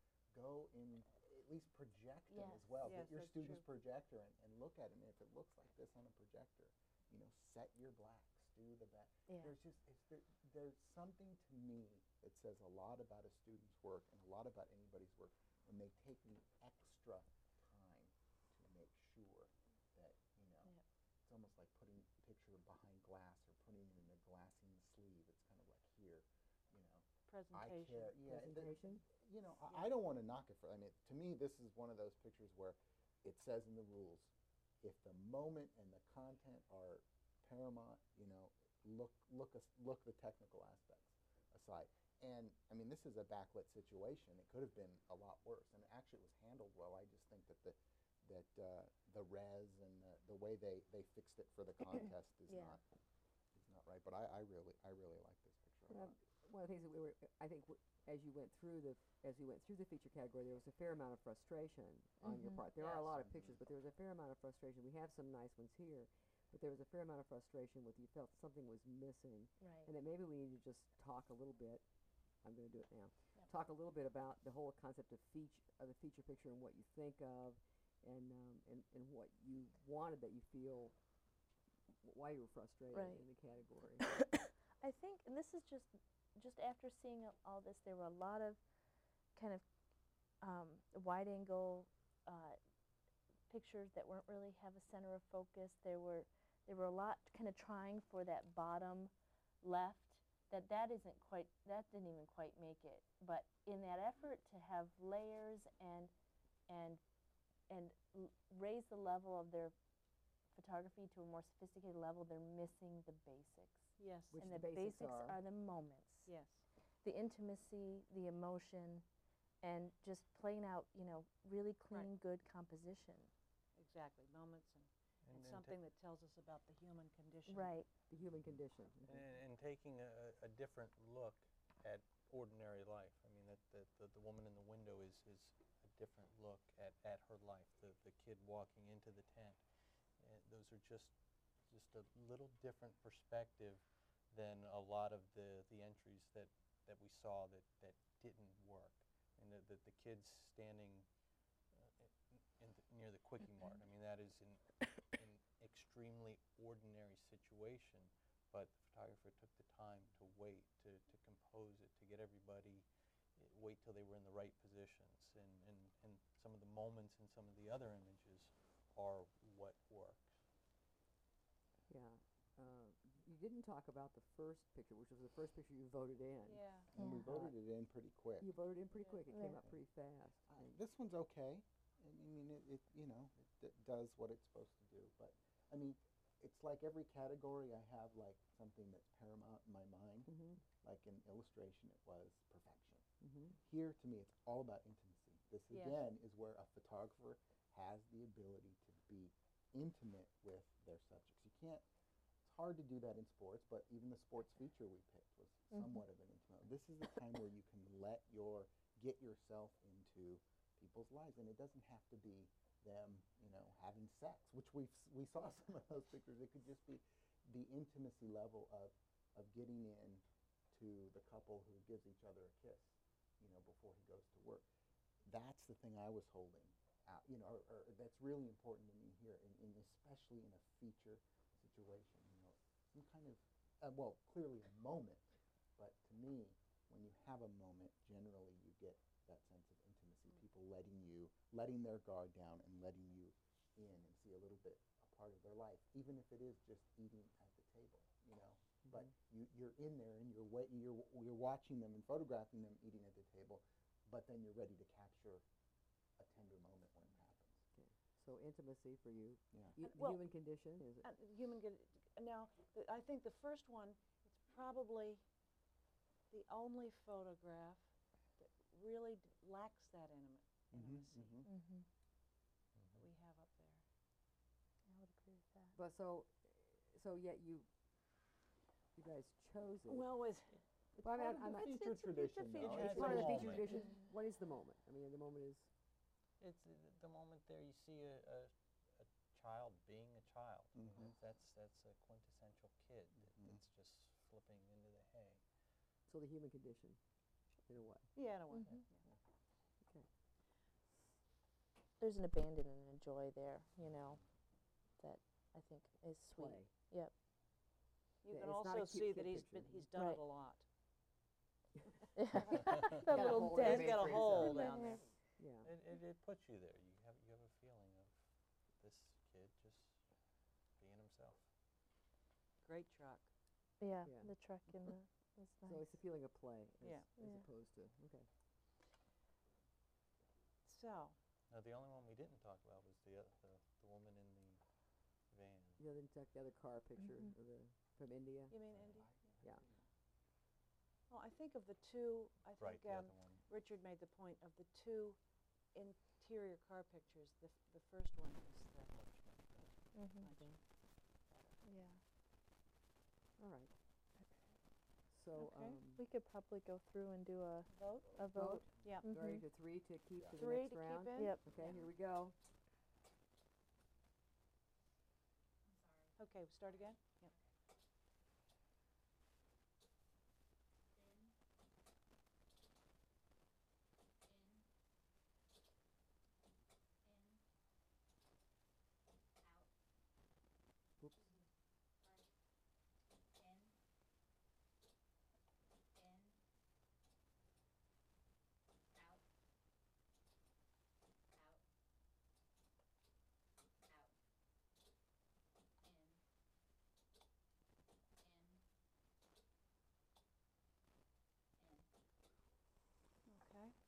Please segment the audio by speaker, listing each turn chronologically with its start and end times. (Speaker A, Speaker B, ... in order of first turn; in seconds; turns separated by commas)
Speaker A: 0.3-20.7, Speaker B: 2.3-2.8, Speaker C: 2.8-3.6, Speaker B: 9.3-9.5, Speaker A: 21.2-34.3, Speaker C: 27.2-28.2, Speaker D: 28.2-29.0, Speaker A: 34.8-52.8, Speaker B: 52.5-52.8, Speaker A: 53.5-56.2, Speaker D: 55.9-71.8, Speaker B: 62.2-62.7, Speaker A: 63.1-63.6, Speaker B: 69.6-69.9, Speaker D: 72.4-80.9, Speaker D: 82.0-84.0, Speaker B: 82.9-83.2, Speaker B: 84.1-88.6, Speaker B: 89.3-89.6, Speaker B: 90.4-92.6, Speaker B: 93.5-106.1, Speaker B: 106.7-107.0, Speaker B: 107.7-109.7, Speaker B: 110.5-116.3, Speaker C: 114.0-114.4, Speaker D: 114.3-115.4, Speaker C: 116.2-116.6, Speaker B: 117.0-119.0, Speaker B: 119.6-123.3, Speaker C: 123.8-127.8, Speaker E: 125.2-125.8, Speaker B: 127.5-127.9, Speaker D: 128.1-129.3, Speaker E: 129.1-139.6, Speaker E: 140.2-141.1, Speaker E: 141.7-151.1, Speaker E: 151.7-170.3, Speaker D: 171.9-176.7, Speaker C: 176.4-176.9, Speaker A: 176.9-178.5, Speaker B: 176.9-177.3, Speaker D: 177.2-177.5, Speaker D: 178.4-180.7, Speaker B: 179.3-179.7, Speaker A: 180.5-190.3, Speaker D: 190.2-190.6, Speaker A: 190.8-193.0, Speaker D: 193.2-193.6, Speaker A: 193.6-201.8, Speaker A: 202.4-224.7, Speaker A: 225.2-235.2, Speaker A: 235.8-255.4, Speaker A: 256.2-257.6, Speaker D: 257.7-261.0, Speaker A: 259.5-259.8, Speaker B: 259.8-260.2, Speaker C: 261.0-265.2, Speaker C: 266.3-271.4, Speaker A: 270.7-271.5, Speaker B: 271.4-271.9, Speaker E: 272.8-273.1, Speaker C: 273.0-273.8, Speaker B: 274.9-275.8, Speaker D: 275.8-277.7, Speaker D: 278.9-280.1, Speaker C: 279.9-281.1, Speaker D: 281.0-281.8, Speaker A: 281.1-283.7, Speaker C: 281.6-283.2, Speaker D: 282.6-285.7, Speaker E: 282.6-283.7, Speaker B: 283.0-284.0, Speaker E: 286.4-295.4, Speaker A: 290.8-291.1, Speaker A: 293.3-293.6, Speaker D: 296.1-297.0, Speaker D: 297.7-298.1, Speaker C: 298.1-299.0, Speaker B: 298.5-298.8, Speaker B: 302.0-304.2, Speaker B: 305.0-307.1, Speaker D: 306.4-306.7, Speaker C: 308.2-310.6, Speaker D: 308.3-309.9, Speaker B: 309.9-310.2, Speaker B: 312.1-315.0, Speaker C: 312.3-314.9, Speaker D: 312.6-315.7, Speaker E: 313.6-315.0, Speaker E: 315.6-318.2, Speaker E: 318.8-320.0, Speaker E: 320.8-321.4, Speaker C: 322.6-323.3, Speaker B: 323.8-326.0, Speaker D: 324.0-324.3, Speaker D: 325.7-328.3, Speaker C: 326.8-327.1, Speaker B: 327.1-327.4, Speaker C: 330.6-331.2, Speaker E: 331.5-334.6, Speaker E: 335.3-335.8, Speaker D: 335.8-338.6, Speaker B: 337.0-337.4, Speaker C: 338.5-339.1, Speaker A: 338.7-339.8, Speaker C: 341.1-345.2, Speaker E: 342.6-343.4, Speaker C: 345.7-349.0, Speaker E: 348.9-349.9, Speaker C: 349.5-350.5, Speaker B: 349.9-350.3, Speaker D: 350.3-350.6, Speaker C: 351.2-351.6, Speaker B: 351.6-352.0, Speaker D: 353.4-353.7, Speaker D: 355.1-356.0, Speaker C: 355.4-355.8, Speaker B: 355.9-359.4, Speaker C: 357.7-359.1, Speaker D: 358.3-362.3, Speaker A: 360.1-360.4, Speaker C: 360.3-361.8, Speaker B: 361.1-361.8, Speaker C: 366.1-367.3, Speaker C: 403.2-403.7